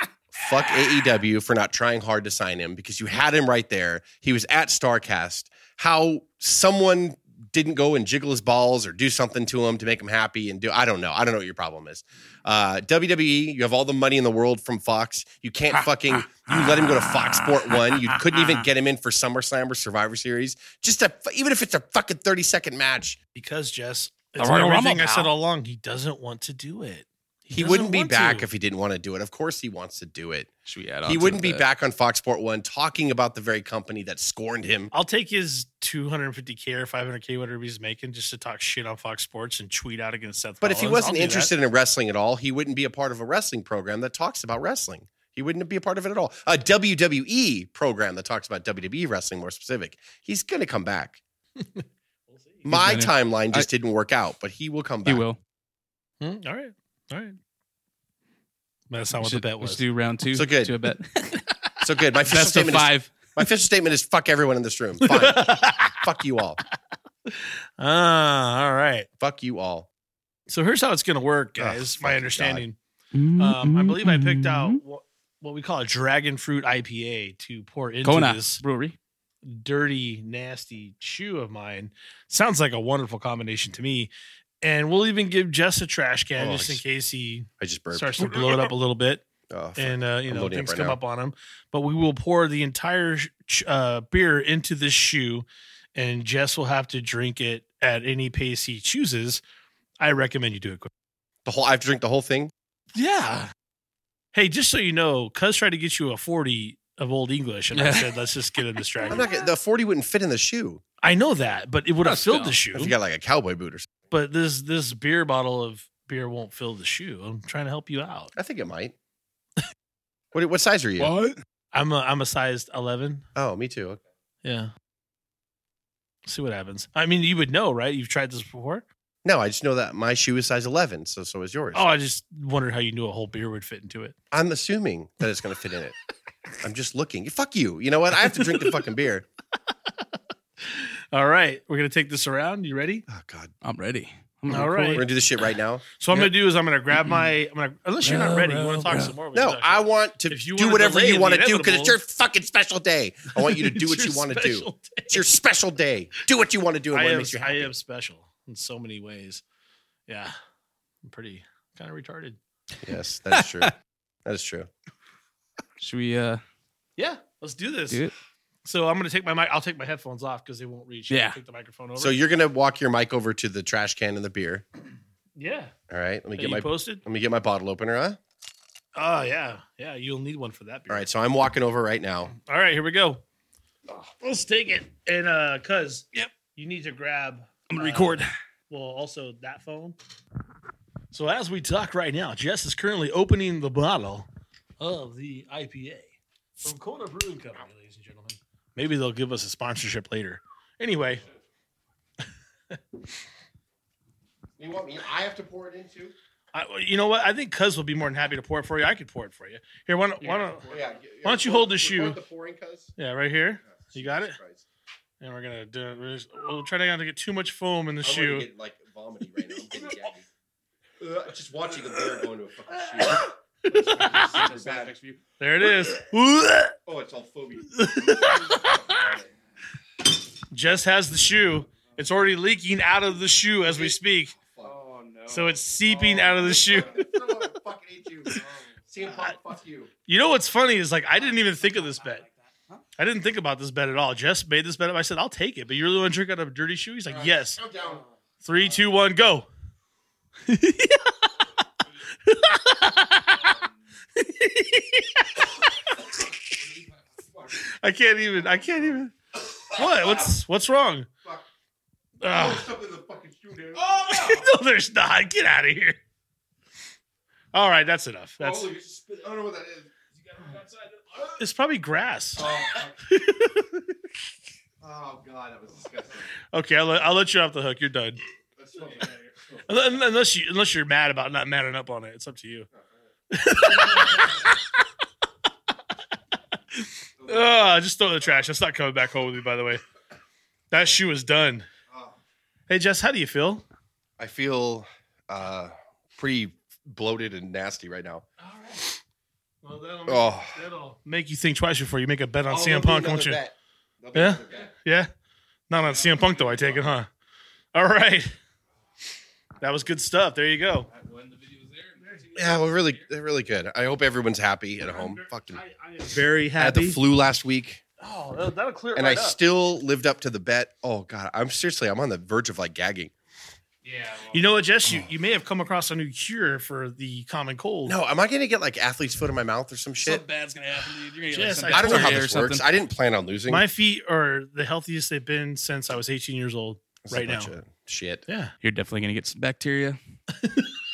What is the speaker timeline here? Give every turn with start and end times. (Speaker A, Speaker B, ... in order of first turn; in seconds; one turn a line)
Speaker A: 0.3-23.2
Speaker B: 16.5-18.4
Speaker C: 23.3-28.5
Speaker B: 24.4-25.3
Speaker A: 27.5-30.5
Speaker B: 30.7-31.6
Speaker A: 31.1-34.9
Speaker C: 34.9-41.5
Speaker A: 40.6-51.2
Speaker C: 51.6-52.7
Speaker B: 52.7-53.7
Speaker A: 52.7-55.2
Speaker B: 55.1-55.4
Speaker C: 56.2-57.4
Speaker C: 58.9-59.8
Speaker B: 59.2-61.4
Speaker A: 60.3-60.7
Speaker A: 61.8-66.6
Speaker B: 62.2-63.1
Speaker C: 65.0-66.0
Speaker C: 67.3-69.1
Speaker A: 69.2-69.9
Speaker C: 70.5-72.8
Speaker A: 71.6-72.6
Speaker B: 73.1-74.8
Speaker C: 73.4-78.6
Speaker B: 78.0-79.0
Speaker C: 79.4-84.1
Speaker C: 84.6-89.2
Speaker A: 86.4-86.8
Speaker A: 87.6-88.7
Speaker A: 89.5-91.0
Speaker C: 89.8-99.4
Speaker C: 100.0-100.9
Speaker A: 101.4-102.5
Speaker C: 102.9-103.5
Speaker C: 104.3-109.2
Speaker B: 107.7-108.2
Speaker A: 109.1-110.8
Speaker C: 111.0-112.9
Speaker B: 112.0-112.6
Speaker A: 112.7-113.9
Speaker C: 114.1-118.3
Speaker A: 118.3-118.9
Speaker A: 120.3-121.1
Speaker B: 121.0-121.4
Speaker C: 121.7-123.2
Speaker A: 123.3-124.0
Speaker C: 124.4-124.7
Speaker C: 126.2-128.8
Speaker A: 129.2-131.8
Speaker C: 131.7-134.2
Speaker A: 134.3-135.9
Speaker A: 136.6-139.2
Speaker C: 138.3-138.8
Speaker C: 140.6-143.1
Speaker A: 143.1-143.5
Speaker B: 143.6-145.0
Speaker C: 144.5-145.1
Speaker A: 144.9-145.8
Speaker C: 146.0-152.0
Speaker B: 148.0-149.1
Speaker A: 149.3-157.7
Speaker C: 153.3-155.2
Speaker C: 156.9-159.4
Speaker C: 160.1-160.3
Speaker C: 161.0-162.4
Speaker A: 162.8-163.7
Speaker A: 164.2-164.7
Speaker B: 165.8-166.4
Speaker C: 167.0-168.1
Speaker C: 168.7-172.2
Speaker B: 171.1-171.4
Speaker A: 172.0-174.6
Speaker C: 175.3-175.7
Speaker A: 175.9-178.2
Speaker C: 176.4-177.0
Speaker C: 178.9-181.1
Speaker A: 180.9-182.3
Speaker C: 182.3-183.2
Speaker C: 183.9-190.0
Speaker B: 187.7-188.3
Speaker C: 191.1-194.2
Speaker C: 194.8-201.2
Speaker A: 204.6-206.1
Speaker C: 206.5-210.7
Speaker B: 210.2-210.8
Speaker A: 210.7-212.9
Speaker C: 211.2-212.2
Speaker C: 213.0-214.4
Speaker A: 213.7-214.6
Speaker C: 215.2-218.5
Speaker A: 218.0-220.2
Speaker A: 221.0-224.9
Speaker C: 223.7-224.3
Speaker B: 223.7-225.2
Speaker C: 225.4-226.8
Speaker A: 226.8-229.3
Speaker C: 227.7-229.0
Speaker C: 230.5-234.3
Speaker A: 233.7-234.7
Speaker B: 234.6-235.6
Speaker C: 235.3-237.1
Speaker A: 236.0-239.9
Speaker C: 240.1-242.2
Speaker B: 242.1-242.8
Speaker C: 243.0-247.6
Speaker A: 247.1-248.1
Speaker C: 248.4-249.5
Speaker C: 250.5-251.6
Speaker C: 252.2-253.6
Speaker C: 254.2-255.5
Speaker C: 257.5-259.1
Speaker C: 259.7-261.1
Speaker C: 262.2-262.7
Speaker A: 262.3-264.4
Speaker C: 263.8-266.0
Speaker C: 267.5-268.7
Speaker A: 268.4-269.9
Speaker C: 271.2-273.9
Speaker A: 272.4-272.9
Speaker A: 274.8-276.3
Speaker C: 276.5-278.2
Speaker A: 278.6-279.1
Speaker C: 279.7-282.7
Speaker C: 283.3-284.8
Speaker C: 286.7-289.8
Speaker A: 287.2-287.6
Speaker C: 290.7-291.7
Speaker C: 292.7-293.6
Speaker A: 294.2-298.2
Speaker C: 298.4-298.8
Speaker C: 299.6-303.4
Speaker A: 300.1-300.6
Speaker A: 302.5-304.7
Speaker C: 304.1-305.1
Speaker C: 305.7-307.1
Speaker B: 306.1-306.7
Speaker C: 307.7-308.3
Speaker C: 309.6-310.9
Speaker B: 310.9-312.4
Speaker A: 312.3-315.6
Speaker C: 314.9-317.0
Speaker A: 316.6-317.8
Speaker C: 318.0-319.4
Speaker A: 318.9-323.1
Speaker B: 323.8-324.4
Speaker C: 324.3-327.9
Speaker A: 327.9-330.2
Speaker B: 330.0-332.6
Speaker C: 331.3-332.2
Speaker A: 331.7-333.6
Speaker C: 333.5-337.5
Speaker A: 337.0-338.2
Speaker C: 338.3-338.5
Speaker B: 338.6-340.0
Speaker C: 340.3-340.7